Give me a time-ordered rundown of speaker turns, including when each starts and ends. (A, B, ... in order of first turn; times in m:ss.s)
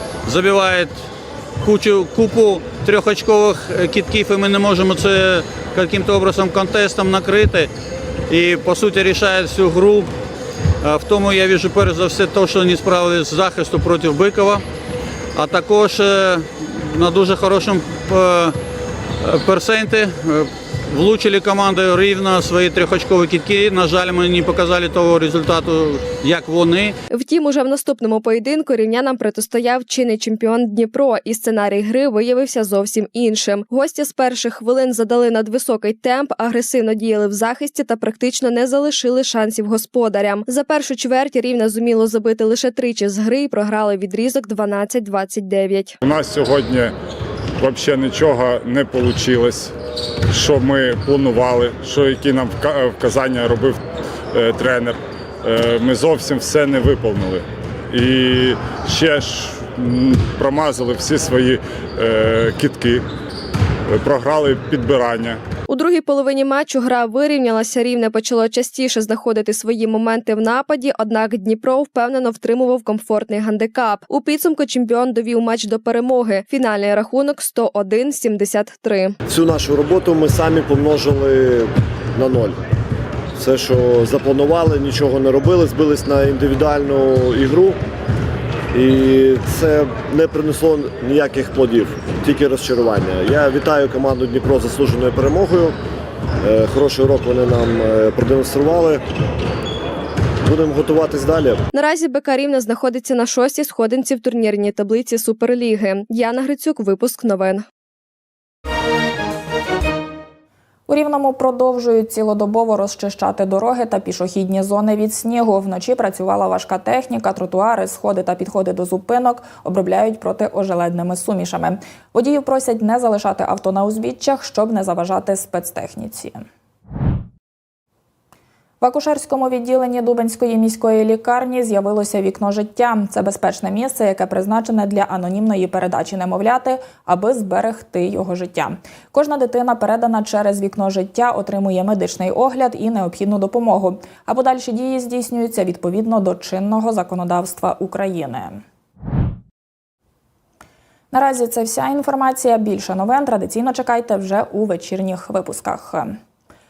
0:00.2-0:00.9 A
0:01.6-0:07.7 A
0:08.3-0:10.1 A
0:10.8-0:14.6 A
0:15.4-0:18.5 A
0:19.2-0:27.0 A
0:27.1-0:46.0 B
0:46.0-0:46.9 C
0:47.6-0:49.7 C
0:50.3-0:53.8 C
0:54.3-1:03.0 C
1:03.9-1:05.4 C
1:05.7-1:19.2 B
1:19.3-1:22.6 D
1:23.4-1:27.8 D
1:28.7-1:35.7 D
1:36.4-1:39.0 D
1:40.4-1:41.6 D
1:41.7-1:47.6 B
1:50.9-2:06.4 E
2:08.8-2:28.6 E
2:31.1-2:36.1 E